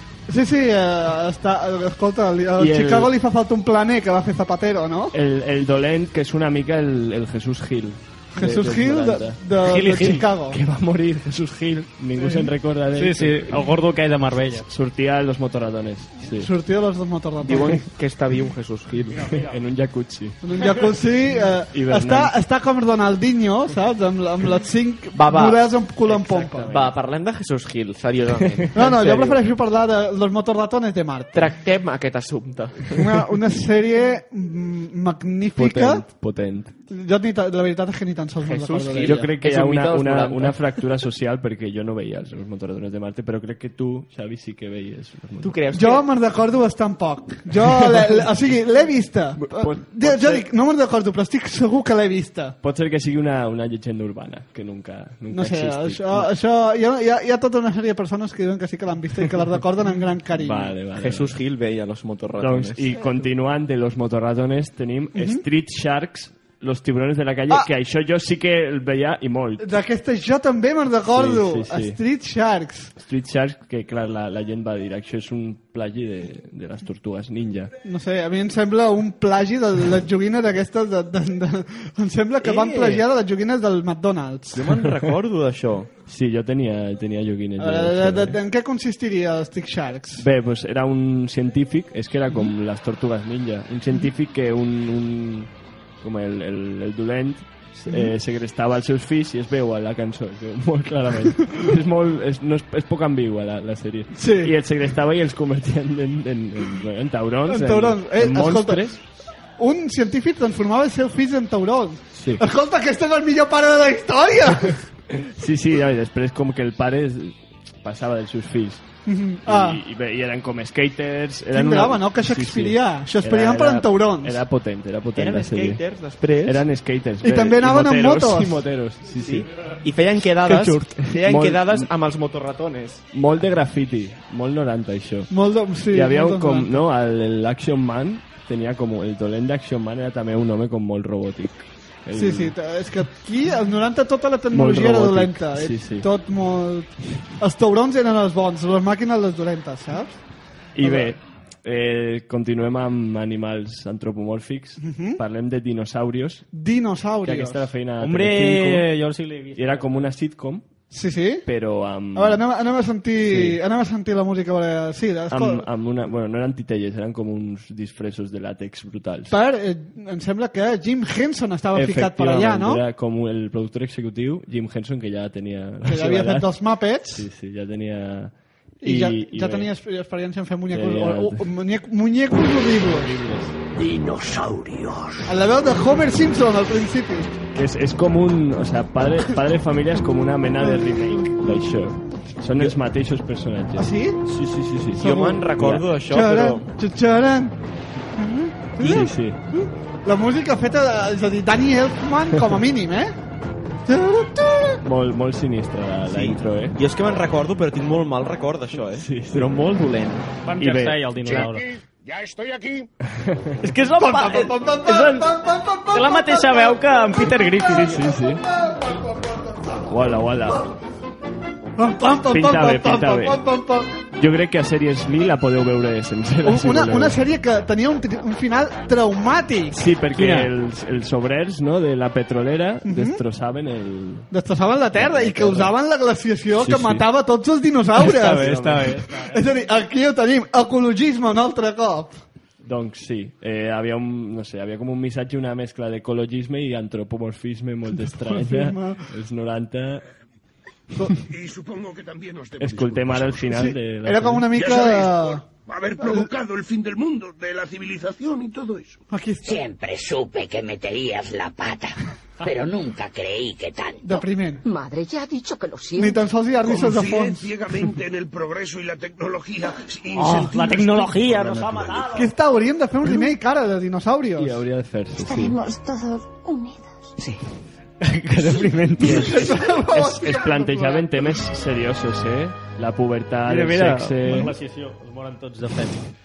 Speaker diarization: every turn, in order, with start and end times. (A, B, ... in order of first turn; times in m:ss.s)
0:00.3-0:05.2 A
0:02.6-0:03.1 B
0:05.1-0:13.8 B
0:08.3-0:10.6 A
0:09.7-0:10.2 C
0:12.9-0:14.6 C
0:14.6-0:16.5 B
0:16.3-0:17.9 A
0:17.4-0:19.2 D
0:19.2-0:20.4 B
0:20.4-0:26.7 A
0:21.7-0:22.3 B
0:25.1-0:25.7 D
0:26.0-0:26.9 B
0:26.7-0:29.4 D
0:28.6-0:29.2 B
0:28.7-0:31.5 A
0:31.3-0:33.2 D
0:32.9-0:36.1 A
0:35.6-0:36.8 B
0:36.9-0:39.3 A
0:38.4-0:40.7 D
0:39.0-0:45.6 B
0:45.4-0:46.0 D
0:45.7-0:52.6 A
0:47.6-0:48.2 B
0:49.4-0:50.5 B
0:52.6-0:56.3 B
0:55.3-1:00.8 A
1:00.4-1:01.4 B
1:01.0-1:02.8 D
1:02.4-1:09.7 B
1:05.2-1:05.4 A
1:09.6-1:12.9 A
1:11.1-1:12.0 B
1:13.0-1:17.7 B
1:17.8-1:24.7 A
1:22.4-1:23.0 D
1:24.5-1:25.9 D
1:26.1-1:28.4 B
1:27.6-1:30.2 A
1:30.2-1:49.0 B
1:37.9-1:38.1 A
1:44.2-1:44.5 A
1:47.5-1:48.8 A
1:49.6-1:54.9 A
1:52.2-1:52.4 B
1:55.1-1:58.8 B
1:59.1-1:59.8 A
1:59.4-2:05.8 B
2:01.5-2:04.4 A
2:05.2-2:06.6 D
2:06.4-2:09.5 B
2:07.2-2:08.7 A
2:09.2-2:13.0 D
2:11.1-2:11.9 B
2:13.1-2:15.3 B
2:15.3-2:16.8 A
2:15.9-2:22.6 B
2:22.1-2:30.2 A
2:24.5-2:26.1 B
2:30.8-2:36.4 B
2:30.8-2:31.1 A
2:34.8-2:35.2 A
2:36.5-2:37.7 A
2:37.2-2:38.9 B
2:38.0-2:40.1 C
2:39.6-2:40.6 B
2:40.9-2:41.5 A
2:41.5-2:42.4 B
2:42.1-2:45.6 A
2:43.2-2:43.6 B
2:45.3-2:49.4 B
2:49.3-2:52.8 A
2:51.7-2:59.7 B
2:55.8-2:57.2 A
2:58.8-3:03.1 A
3:00.7-3:01.5 B
3:02.9-3:03.6 B
3:03.8-3:05.2 E
3:05.2-3:07.4 A
3:07.5-3:15.8 B
3:10.6-3:11.3 A
3:13.8-3:14.2 A
3:14.9-3:16.7 D
3:15.0-3:15.4 A
3:16.1-3:17.6 A
3:18.2-3:23.2 A
3:18.8-3:19.4 B
3:23.9-3:24.8 A
3:24.8-3:26.8 B
3:26.1-3:30.3 D
3:28.9-3:29.5 B
3:30.4-3:31.8 C
3:30.6-3:31.6 B
3:32.1-3:32.9 F
3:33.1-3:33.6 B
3:33.6-3:35.3 C
3:33.9-3:39.8 A
3:35.9-3:37.9 C
3:37.7-3:38.4 B
3:39.7-3:40.7 B
3:41.8-3:43.9 A
3:42.3-3:43.4 B
3:44.2-3:47.2 B
3:46.4-3:49.8 A
3:49.7-3:54.3 B
3:50.1-3:50.5 C
3:52.8-3:53.2 A
3:54.3-3:58.6 A
3:54.9-3:55.7 B
3:56.6-3:57.0 B
3:58.0-3:59.0 B
3:58.1-3:59.5 C
3:59.1-4:02.2 A
4:02.6-4:10.1 B
4:08.0-4:09.0 A
4:10.9-4:11.2 A
4:11.3-4:13.0 F
4:12.6-4:14.5 B
4:13.5-4:15.5 A
4:14.6-4:18.9 F
4:16.0-4:16.3 A
4:19.1-4:19.6 A
4:19.4-4:26.2 E
4:24.0-4:24.7 A
4:25.9-4:27.5 A
4:26.9-4:31.8 F
4:30.1-4:32.3 C
4:32.1-4:34.6 A
4:34.3-4:35.6 B
4:35.2-4:37.2 E
4:38.0-4:39.5 C
4:39.0-4:44.6 B
4:39.0-4:41.1 A
4:43.4-4:46.0 C